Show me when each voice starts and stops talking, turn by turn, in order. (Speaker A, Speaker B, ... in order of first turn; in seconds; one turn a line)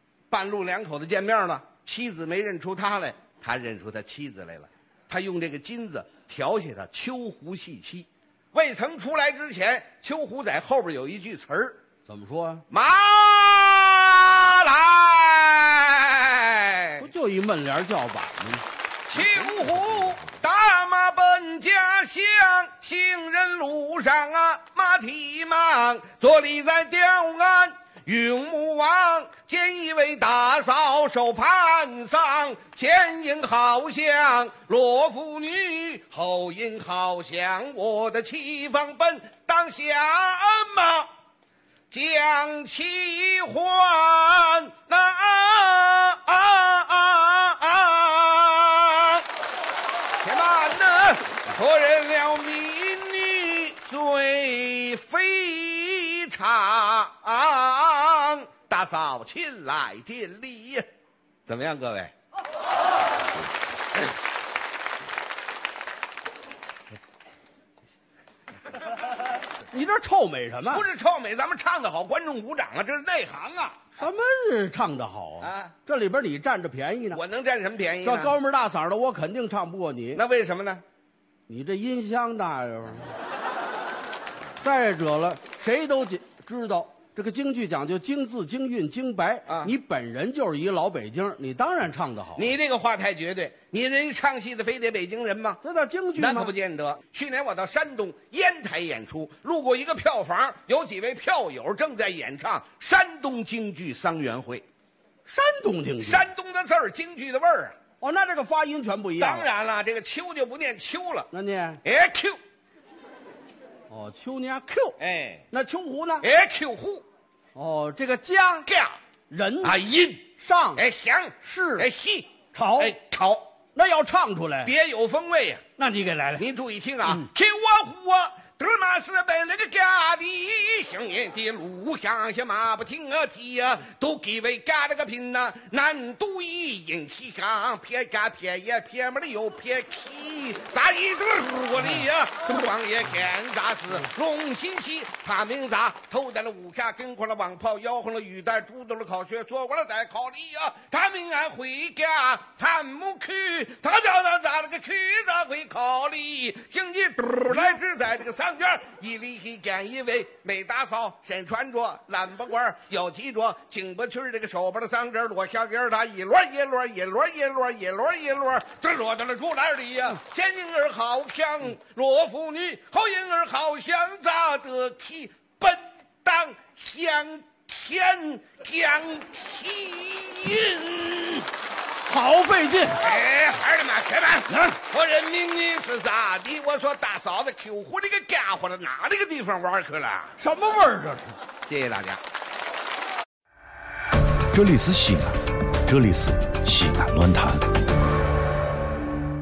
Speaker A: 0.3-11.8
Speaker B: 12.1-12.6
Speaker A: 12.7-17.0
Speaker B: 17.0-20.2
Speaker A: 19.1-41.1
Speaker A: 41.9-49.2
Speaker A: 50.2-60.8
Speaker A: 61.5-62.1
Speaker B: 69.7-70.8
Speaker A: 70.7-73.9
Speaker B: 74.0-77.2
Speaker A: 75.4-75.7
Speaker A: 77.1-78.4
Speaker B: 78.0-80.2
Speaker A: 80.1-80.8
Speaker B: 81.5-83.1
Speaker B: 84.6-92.5
Speaker A: 89.5-89.7
Speaker A: 92.4-95.6
Speaker B: 95.6-96.5
Speaker A: 96.2-104.6
Speaker B: 105.2-106.2
Speaker A: 106.0-107.8
Speaker B: 108.0-109.5
Speaker A: 109.2-111.3
Speaker B: 111.3-111.8
Speaker A: 111.8-112.4
Speaker B: 113.9-115.0
Speaker A: 115.0-115.5
Speaker B: 115.5-116.2
Speaker A: 116.2-117.0
Speaker B: 117.5-118.7
Speaker A: 118.7-119.0
Speaker B: 119.3-119.8
Speaker A: 119.6-123.5
Speaker B: 120.4-120.8
Speaker B: 121.4-121.9
Speaker B: 122.5-122.9
Speaker B: 123.7-124.7
Speaker A: 124.6-125.6
Speaker B: 125.8-126.5
Speaker A: 126.4-181.5
Speaker B: 182.0-183.1
Speaker A: 183.0-190.4
Speaker B: 184.5-184.8
Speaker B: 190.4-191.4
Speaker A: 191.7-192.2
Speaker C: 194.5-197.7